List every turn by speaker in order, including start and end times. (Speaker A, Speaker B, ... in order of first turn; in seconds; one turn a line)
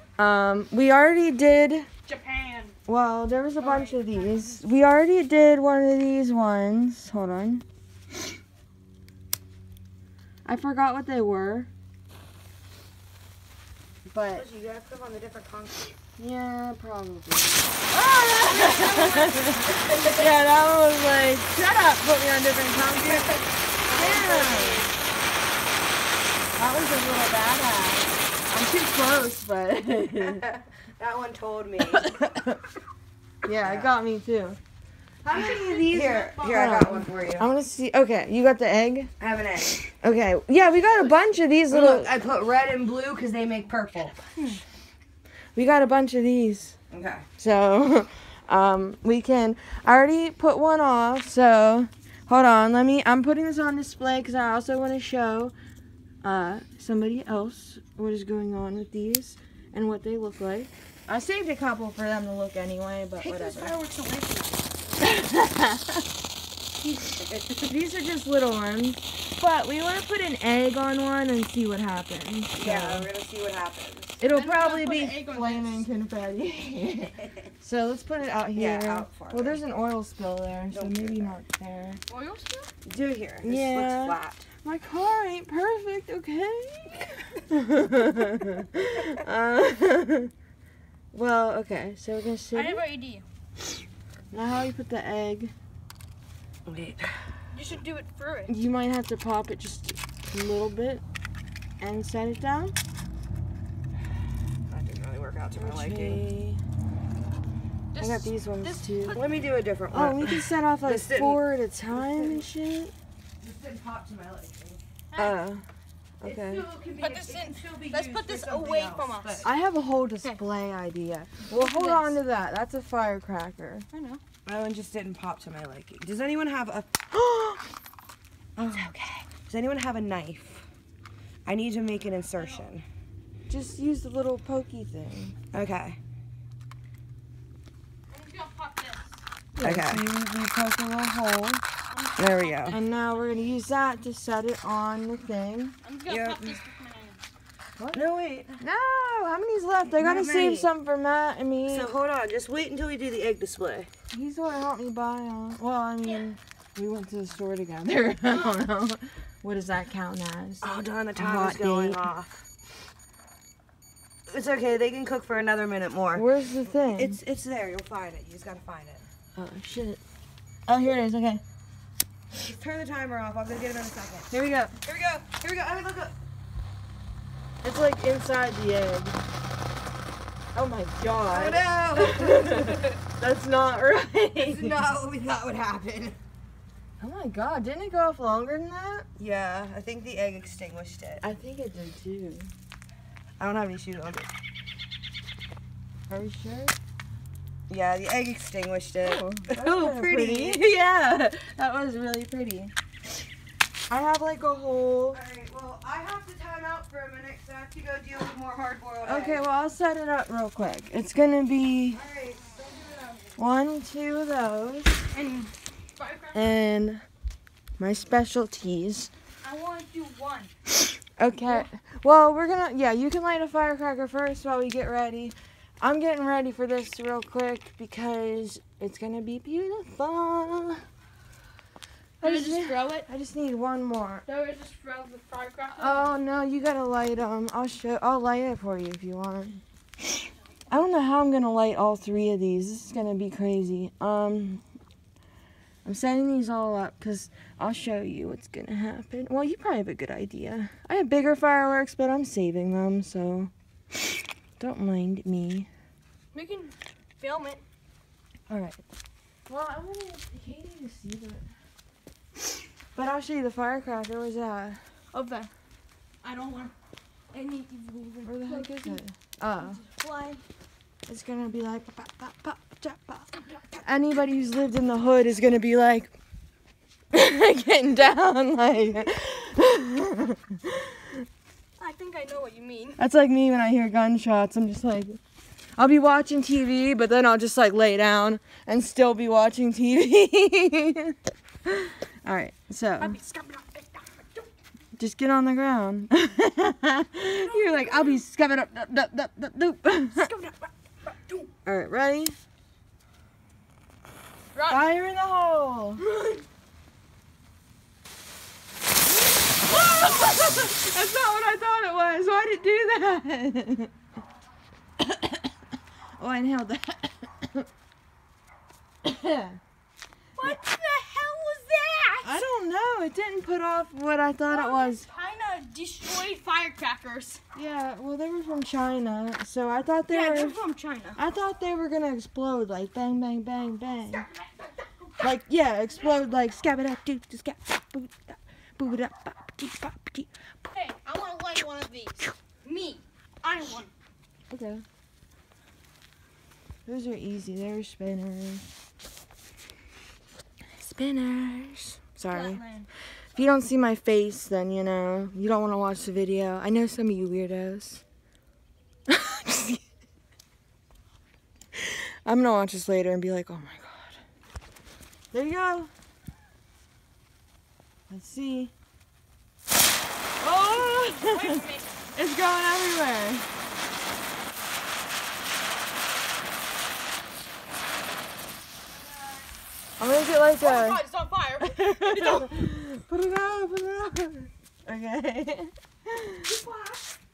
Speaker A: 0.2-1.9
Speaker B: 2.1-2.8
Speaker A: 2.9-7.6
Speaker B: 3.6-4.6
Speaker A: 10.4-11.7
Speaker A: 14.1-14.5
Speaker C: 14.4-15.9
Speaker A: 16.2-17.8
Speaker B: 17.9-19.5
Speaker A: 18.4-24.9
Speaker C: 18.5-19.0
Speaker C: 19.7-20.2
Speaker C: 23.1-24.9
Speaker A: 26.6-30.4
Speaker C: 30.2-32.1
Speaker A: 31.8-32.6
Speaker A: 33.5-34.6
Speaker C: 33.6-33.9
Speaker A: 35.2-39.1
Speaker C: 35.3-37.5
Speaker C: 39.2-39.8
Speaker A: 40.0-42.1
Speaker C: 41.7-44.2
Speaker B: 44.4-44.6
Speaker A: 45.5-46.8
Speaker C: 46.9-47.3
Speaker A: 47.4-55.5
Speaker A: 56.2-63.8
Speaker C: 63.2-65.1
Speaker A: 65.0-65.9
Speaker C: 66.8-67.7
Speaker A: 67.7-73.1
Speaker C: 72.5-74.2
Speaker A: 74.2-82.0
Speaker B: 74.2-75.9
Speaker C: 78.5-79.6
Speaker C: 80.7-81.4
Speaker B: 82.1-82.7
Speaker C: 82.8-84.5
Speaker A: 83.4-90.3
Speaker A: 91.1-92.9
Speaker B: 92.5-93.2
Speaker A: 94.3-95.5
Speaker C: 96.7-97.2
Speaker B: 97.5-98.5
Speaker A: 98.5-101.0
Speaker A: 101.8-102.8
Speaker C: 104.7-106.2
Speaker A: 105.5-106.6
Speaker B: 107.9-109.5
Speaker A: 108.0-109.2
Speaker C: 109.1-112.5
Speaker A: 109.9-112.9
Speaker C: 113.4-114.8
Speaker B: 115.1-115.5
Speaker A: 115.2-115.7
Speaker A: 116.2-116.7
Speaker C: 116.2-119.5
Speaker B: 116.9-119.5
Speaker A: 119.4-123.9
Speaker B: 121.5-122.2
Speaker B: 123.9-124.2
Speaker C: 124.5-127.0
Speaker A: 127.1-127.6
Speaker A: 128.6-128.9
Speaker C: 128.6-130.7
Speaker C: 131.4-132.8
Speaker B: 132.4-132.6
Speaker A: 133.5-135.4
Speaker C: 135.5-136.0
Speaker B: 138.1-139.2
Speaker A: 139.6-141.6
Speaker C: 139.6-140.0
Speaker B: 141.9-142.9
Speaker C: 142.2-142.8
Speaker A: 142.7-145.8
Speaker B: 145.8-147.2
Speaker C: 146.1-146.6
Speaker A: 147.8-148.0
Speaker C: 147.9-148.6
Speaker A: 148.6-151.9
Speaker C: 149.9-150.7
Speaker C: 151.7-153.9
Speaker A: 154.1-162.1
Speaker C: 160.6-162.5
Speaker C: 164.3-166.2
Speaker A: 166.2-167.2
Speaker C: 166.8-169.1
Speaker A: 169.4-170.0
Speaker A: 170.7-171.4
Speaker C: 172.3-176.2
Speaker A: 174.3-174.8
Speaker A: 177.6-179.2
Speaker A: 180.5-184.9
Speaker C: 181.3-183.0
Speaker C: 184.4-186.2
Speaker A: 187.0-189.1
Speaker C: 189.2-191.2
Speaker A: 191.2-192.5
Speaker C: 193.4-194.3
Speaker A: 196.1-196.8
Speaker C: 197.7-200.7
Speaker A: 199.0-202.7
Speaker A: 203.9-205.2
Speaker C: 205.1-209.4
Speaker A: 209.0-212.0
Speaker C: 211.9-213.3
Speaker A: 213.4-215.0
Speaker B: 215.1-216.5
Speaker A: 216.3-217.0
Speaker A: 217.8-219.1
Speaker B: 219.4-220.5
Speaker A: 221.2-230.8
Speaker A: 232.2-234.3
Speaker B: 232.2-233.1
Speaker B: 234.3-236.1
Speaker A: 235.7-239.6
Speaker A: 240.7-244.6
Speaker A: 245.8-253.5
Speaker A: 254.6-255.7
Speaker B: 256.3-257.6
Speaker A: 258.5-258.8
Speaker A: 259.5-261.4
Speaker A: 262.9-264.8
Speaker B: 265.1-265.5
Speaker B: 266.2-266.7
Speaker B: 267.3-269.0
Speaker A: 268.2-269.8
Speaker B: 269.6-270.4
Speaker A: 271.1-276.2
Speaker A: 277.1-281.2
Speaker B: 281.8-283.0
Speaker A: 283.0-285.2
Speaker A: 285.8-293.2
Speaker B: 293.0-294.5
Speaker A: 295.0-300.3
Speaker B: 297.4-298.2
Speaker B: 300.1-301.5
Speaker A: 301.6-302.4
Speaker B: 304.6-304.8
Speaker A: 304.7-306.0
Speaker B: 306.0-306.4
Speaker A: 309.6-313.9
Speaker A: 315.0-315.5
Speaker A: 316.2-317.7
Speaker A: 319.0-319.6
Speaker B: 320.4-322.4
Speaker A: 322.2-325.1
Speaker B: 324.5-327.4
Speaker A: 327.5-330.6
Speaker B: 330.1-331.2
Speaker A: 331.1-334.3
Speaker A: 335.2-340.8
Speaker B: 340.7-343.9
Speaker A: 344.5-344.8
Speaker A: 346.9-348.7
Speaker A: 350.8-352.6
Speaker B: 352.3-352.9
Speaker A: 353.4-358.0
Speaker A: 359.1-359.8
Speaker A: 361.8-364.2
Speaker A: 365.3-365.9
Speaker A: 368.1-368.7
Speaker A: 370.4-373.5
Speaker B: 371.2-372.0
Speaker A: 380.0-381.0
Speaker B: 380.6-382.7
Speaker A: 381.6-386.5
Speaker B: 386.4-387.1